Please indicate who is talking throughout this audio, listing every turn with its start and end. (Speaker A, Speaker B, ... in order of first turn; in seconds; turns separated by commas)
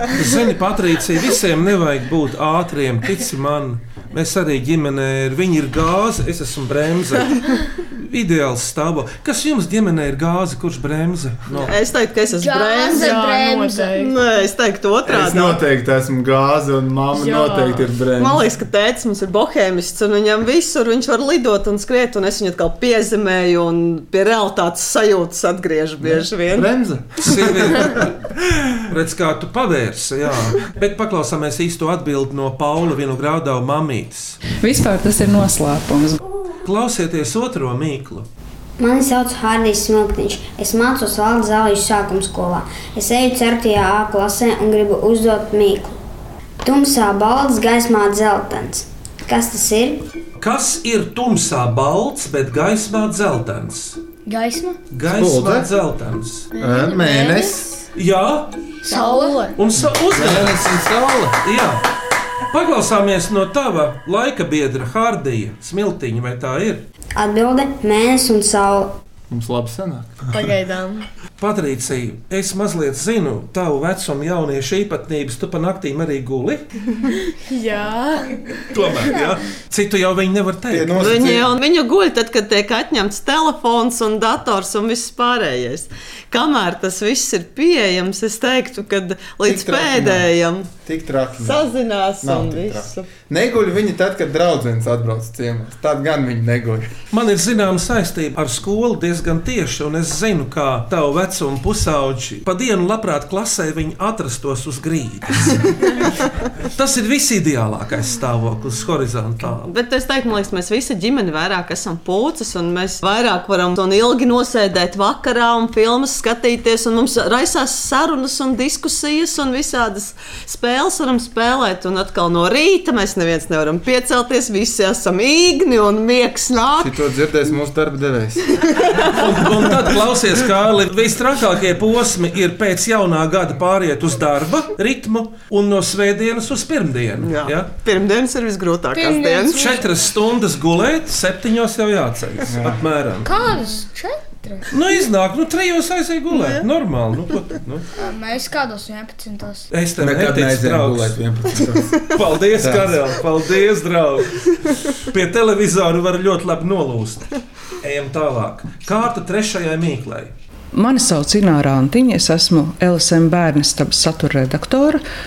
Speaker A: 0.1-11.7, Speaker B: 11.6-13.2, Speaker C: 12.3-14.1, Speaker D: 12.8-14.1, Speaker B: 13.9-15.6, Speaker E: 15.0-18.4, Speaker D: 17.1-17.8, Speaker B: 18.1-26.7, Speaker E: 26.0-28.6, Speaker A: 27.2-28.2, Speaker A: 28.7-34.4, Speaker F: 34.6-36.2, Speaker A: 36.6-38.3, Speaker G: 38.8-46.0, Speaker G: 46.6-50.1, Speaker A: 50.4-54.0, Speaker C: 54.2-54.8, Speaker A: 54.9-56.5, Speaker E: 55.0-55.7, Speaker D: 56.5-57.8, Speaker E: 56.6-57.7, Speaker A: 58.0-58.5, Speaker C: 58.8-59.5, Speaker D: 58.9-59.6, Speaker A: 59.6-60.6, Speaker E: 59.8-61.4, Speaker A: 61.4-61.8, Speaker A: 62.5-66.8, Speaker G: 67.1-69.0, Speaker E: 69.3-70.2, Speaker D: 70.3-71.1, Speaker A: 71.4-76.6, Speaker D: 77.0-79.0, Speaker A: 78.7-81.1, Speaker E: 80.7-81.5, Speaker B: 81.0-90.7, Speaker E: 89.4-90.3, Speaker E: 90.8-96.9, Speaker B: 91.4-93.1, Speaker A: 97.1-109.7, Speaker B: 109.6-126.9, Speaker E: 126.8-128.8, Speaker A: 129.1-137.7, Speaker B: 137.2-139.7, Speaker C: 138.9-140.0, Speaker A: 139.5-143.3, Speaker E: 142.5-142.8, Speaker C: 143.2-144.6, Speaker A: 144.7-147.9, Speaker B: 146.3-146.6, Speaker C: 148.0-149.7, Speaker A: 149.7-151.2, Speaker E: 150.0-153.0, Speaker A: 152.0-157.3, Speaker A: 157.8-160.3, Speaker F: 160.7-165.0